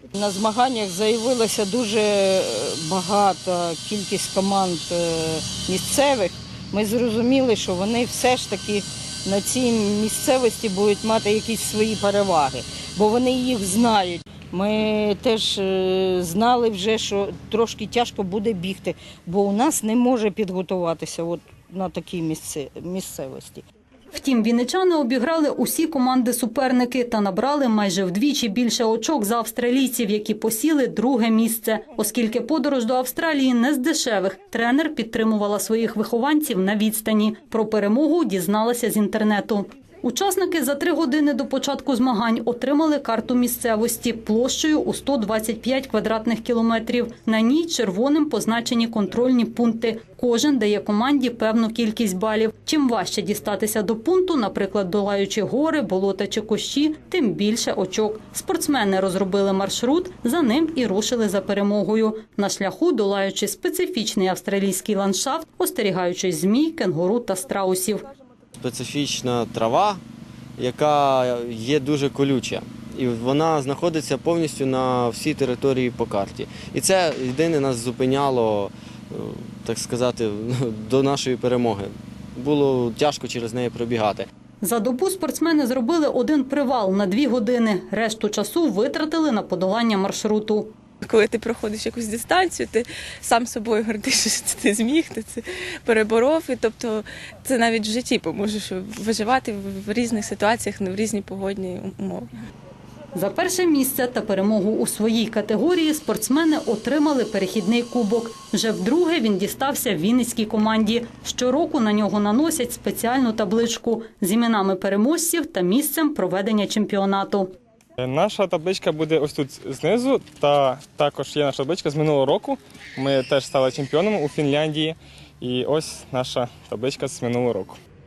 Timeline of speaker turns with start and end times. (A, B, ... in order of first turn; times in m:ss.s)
0:00.1-0:23.6 A
0:24.1-1:08.0 B
1:08.6-1:10.0 C
1:10.6-1:24.3 C
1:24.6-1:30.7 B
1:31.0-1:42.3 D
1:43.1-1:57.5 B
1:58.0-2:07.8 E